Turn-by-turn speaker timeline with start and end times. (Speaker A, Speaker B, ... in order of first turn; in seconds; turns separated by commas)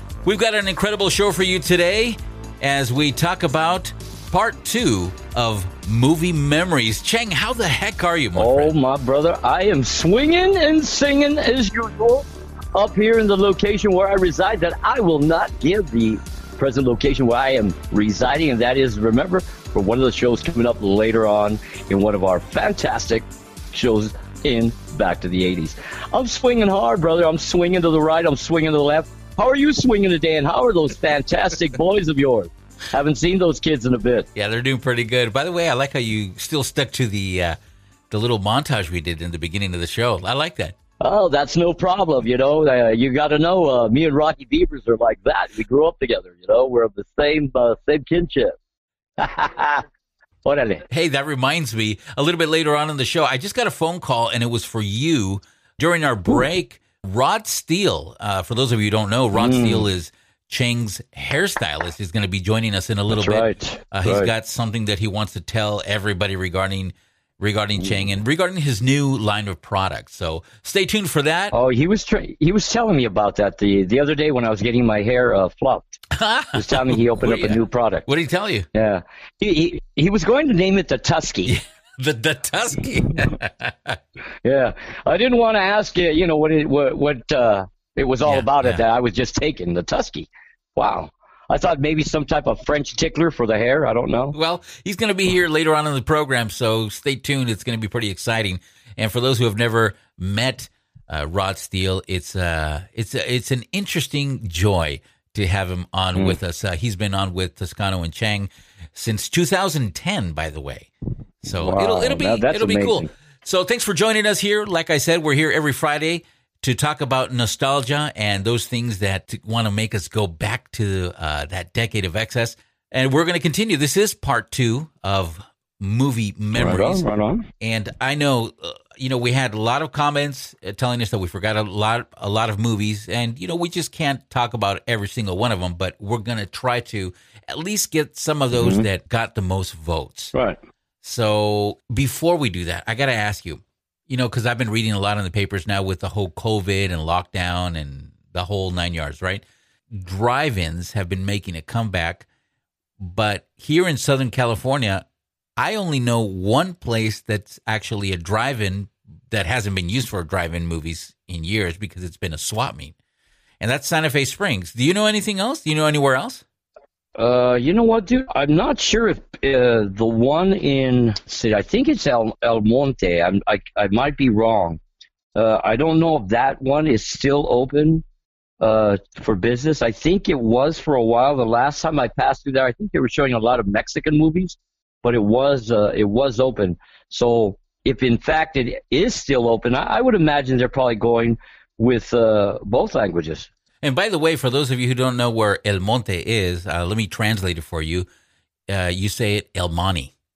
Speaker A: 0.2-8.7, Speaker B: 8.4-34.3, Speaker A: 34.4-37.6, Speaker A: 38.1-40.8, Speaker B: 41.0-48.5, Speaker B: 49.2-49.9, Speaker B: 50.5-50.9, Speaker A: 50.9-71.5, Speaker B: 59.4-59.9, Speaker B: 63.1-64.3, Speaker B: 67.8-68.1, Speaker B: 71.5-76.0, Speaker A: 76.1-78.7, Speaker B: 76.5-78.1, Speaker B: 78.8-81.6, Speaker A: 81.5-84.0, Speaker B: 84.4-94.3, Speaker A: 88.2-88.8, Speaker A: 94.3-110.9, Speaker A: 111.4-127.0, Speaker B: 111.5-113.1, Speaker B: 126.5-127.5, Speaker A: 127.6-140.3, Speaker B: 138.6-138.9, Speaker A: 141.0-152.3, Speaker A: 153.0-155.1, Speaker A: 155.6-162.9, Speaker A: 163.6-166.4, Speaker B: 167.2-174.8, Speaker B: 175.3-178.0, Speaker B: 178.6-193.5, Speaker A: 193.8-198.1, Speaker A: 198.7-200.1